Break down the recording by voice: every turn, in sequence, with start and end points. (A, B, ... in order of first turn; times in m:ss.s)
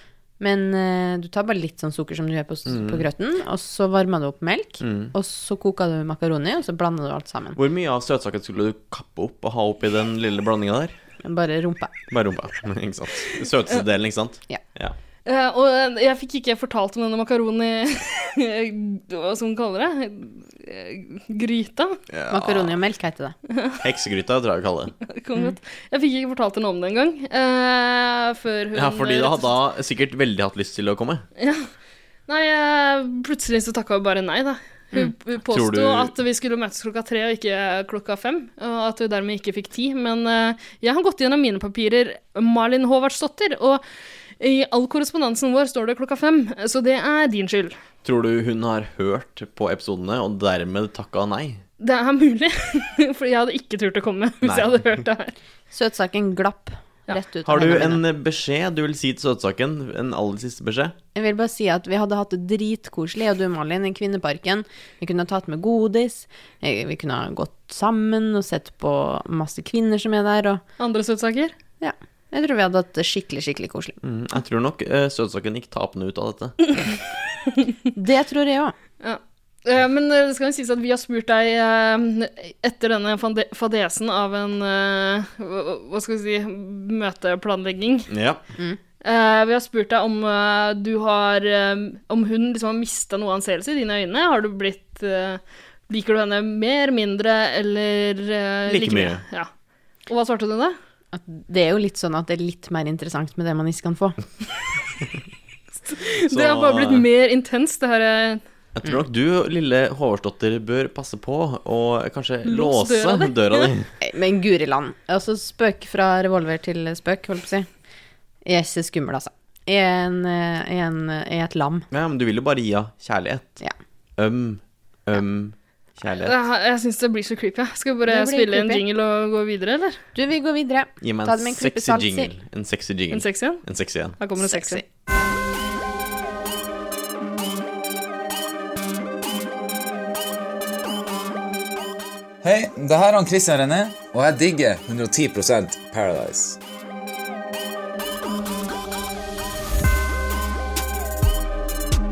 0:00.4-0:07.6 A
0:02.7-0:03.0 B
0:04.8-0:05.1 B
0:07.6-0:11.0 B
0:11.2-0:11.9 A
0:12.1-0:15.0 B
0:15.3-0:22.0 C
0:22.1-0:22.8 B
0:22.3-0:23.3 A
0:23.5-0:23.8 C
0:23.8-0:24.9 B
0:25.1-0:29.5 C
0:28.8-0:31.2 B
0:31.4-0:31.7 C
0:32.3-0:43.8 C
0:35.4-0:36.2 B
0:44.4-0:47.8 C
0:48.0-0:51.6 B
0:51.8-0:55.3 C
0:54.4-0:54.8 B
0:55.7-0:58.0 A
0:57.4-1:01.0 B
1:01.2-1:10.6 A
1:10.8-1:11.5 C
1:11.8-1:14.0 A
1:14.0-1:16.6 B
1:18.0-1:18.7 A
1:19.0-1:28.1 C
1:28.1-1:28.4 B
1:29.0-1:39.5 C
1:38.7-1:39.2 B
1:40.1-1:40.8 C
1:41.1-1:44.2 A
1:45.9-1:48.4 C
1:46.3-1:47.0 B
1:48.8-1:53.9 B
1:52.4-1:53.7 C
1:54.0-1:57.7 A
1:58.5-2:01.8 A
2:01.9-2:03.6 B
2:04.2-2:06.4 B
2:06.2-2:10.0 C
2:08.1-2:08.8 A
2:10.2-2:12.3 A
2:11.0-2:14.2 B
2:13.1-2:13.6 C
2:14.2-2:14.8 C
2:14.4-2:14.8 A
2:22.4-2:26.6 D